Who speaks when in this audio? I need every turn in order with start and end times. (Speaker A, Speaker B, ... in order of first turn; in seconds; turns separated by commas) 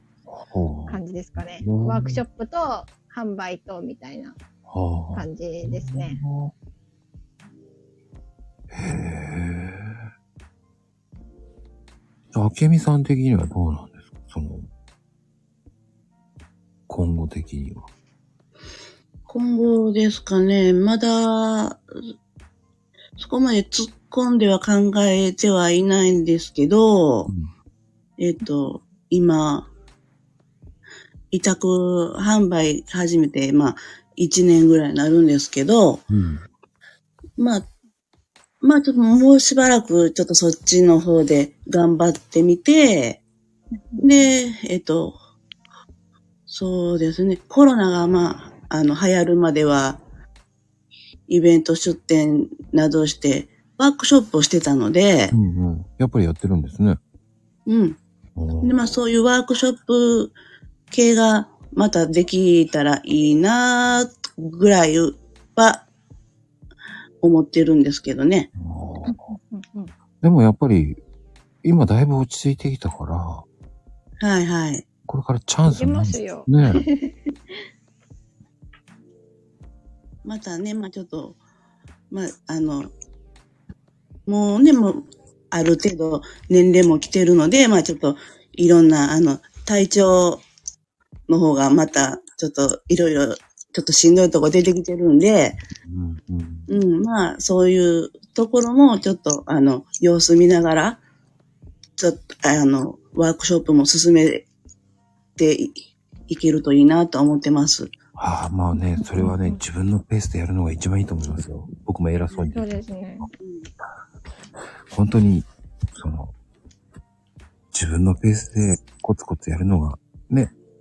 Speaker A: 0.3-1.0, Speaker B: 0.9-4.4, Speaker A: 1.6-2.2, Speaker A: 4.7-6.5, Speaker B: 5.1-6.2, Speaker A: 8.7-10.0, Speaker A: 12.3-14.7, Speaker A: 16.9-17.9, Speaker C: 19.3-21.8, Speaker C: 23.2-27.3, Speaker A: 27.3-27.5, Speaker C: 28.2-29.7, Speaker C: 31.3-36.0, Speaker A: 36.1-36.4, Speaker C: 37.4-37.6, Speaker C: 38.6-43.2, Speaker C: 44.0-45.2, Speaker C: 46.5-50.0, Speaker C: 51.3-55.4, Speaker A: 55.3-57.0, Speaker C: 57.7-58.0, Speaker A: 58.4-59.0, Speaker C: 58.6-60.4, Speaker C: 60.9-65.9, Speaker C: 67.2-68.5, Speaker A: 68.6-69.3, Speaker B: 69.0-69.9, Speaker A: 70.2-71.0, Speaker A: 71.6-73.5, Speaker C: 74.2-74.8, Speaker A: 75.1-76.8, Speaker B: 75.7-77.6, Speaker C: 80.2-81.4, Speaker C: 82.1-82.9, Speaker C: 84.3-90.4, Speaker C: 91.3-95.6, Speaker A: 95.8-96.7, Speaker C: 96.7-101.0, Speaker C: 102.0-104.5, Speaker C: 105.4-107.9, Speaker A: 108.2-112.7, Speaker B: 109.0-109.6, Speaker B: 112.3-113.3, Speaker C: 113.4-113.7, Speaker A: 114.9-116.3, Speaker A: 117.7-120.5